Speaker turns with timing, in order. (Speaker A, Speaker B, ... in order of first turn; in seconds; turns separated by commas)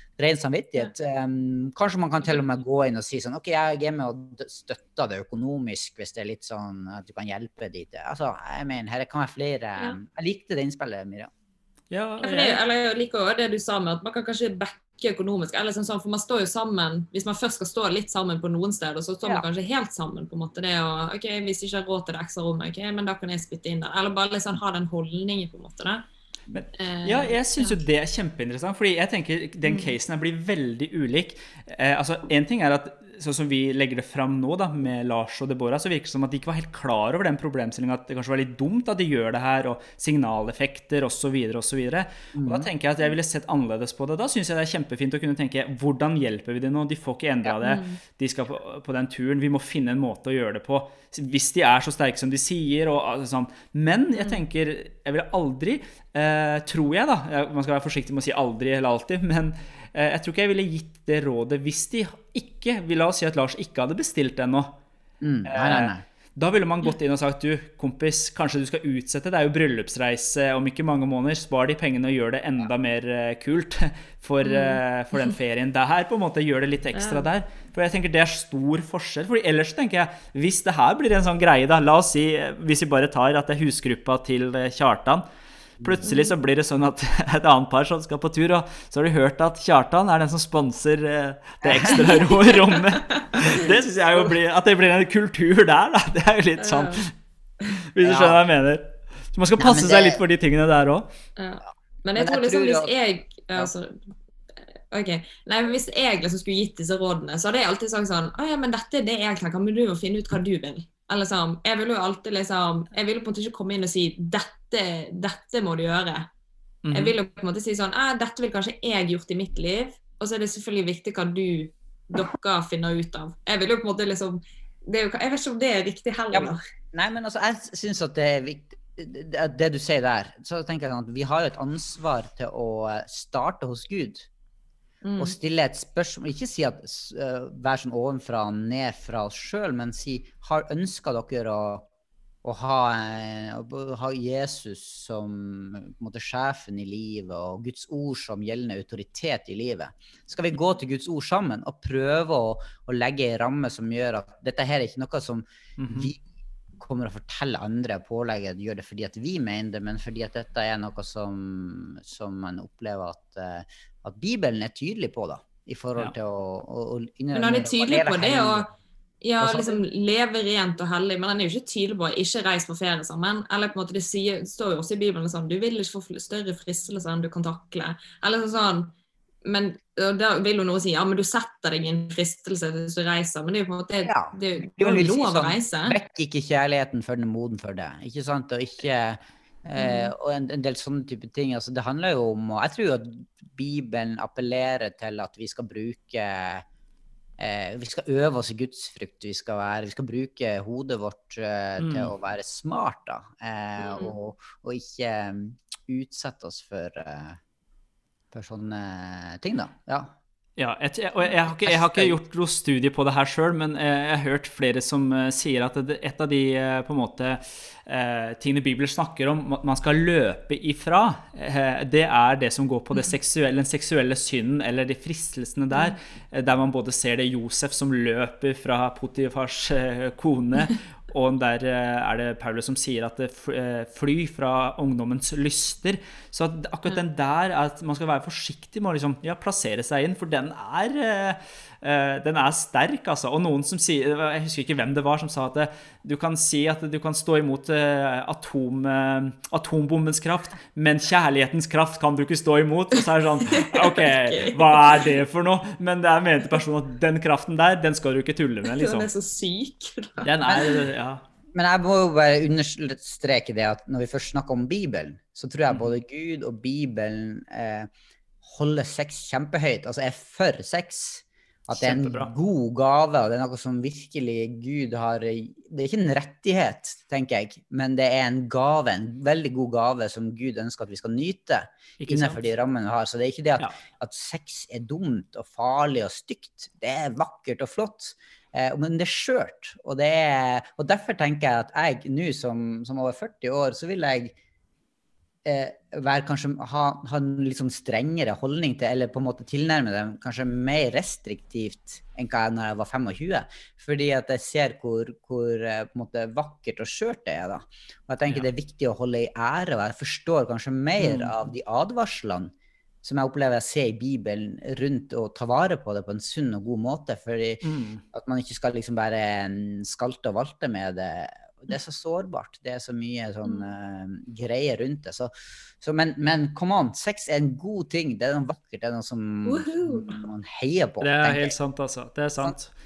Speaker A: 0.2-11.3, Speaker B: 11.9-12.6, Speaker C: 12.2-26.1, Speaker B: 26.5-64.7, Speaker C: 26.8-27.8, Speaker C: 29.6-29.9, Speaker A: 42.4-42.7, Speaker C: 47.6-48.0, Speaker A: 65.2-66.0, Speaker B: 65.5-85.2, Speaker C: 74.4-74.8, Speaker C: 76.9-77.2, Speaker B: 85.8-97.1, Speaker C: 86.0-86.3, Speaker A: 91.6-92.0, Speaker C: 92.2-93.7, Speaker C: 96.6-97.0, Speaker B: 97.8-101.1, Speaker A: 98.0-98.4, Speaker A: 99.6-100.2, Speaker C: 101.4-104.0, Speaker A: 102.2-102.9, Speaker C: 104.9-116.3, Speaker B: 116.8-117.2, Speaker C: 116.9-126.6, Speaker A: 126.3-134.3, Speaker C: 135.0-135.3, Speaker A: 135.2-141.9, Speaker A: 142.4-156.2, Speaker B: 155.8-156.1, Speaker A: 156.8-168.7, Speaker C: 167.3-168.7, Speaker C: 169.2-186.0, Speaker A: 169.4-169.8, Speaker A: 184.0-196.7, Speaker C: 189.8-190.1, Speaker A: 197.4-207.4, Speaker B: 201.8-202.1, Speaker C: 203.8-204.1, Speaker A: 208.3-210.2, Speaker B: 210.6-259.1, Speaker A: 211.5-212.2, Speaker C: 253.4-255.1, Speaker C: 258.6-260.9, Speaker B: 260.2-261.2, Speaker A: 261.5-267.9, Speaker A: 268.4-294.4, Speaker B: 271.7-272.3, Speaker B: 282.0-282.4, Speaker A: 295.4-331.6, Speaker B: 311.0-311.3, Speaker B: 317.6-318.0, Speaker C: 329.4-330.2, Speaker B: 331.0-332.7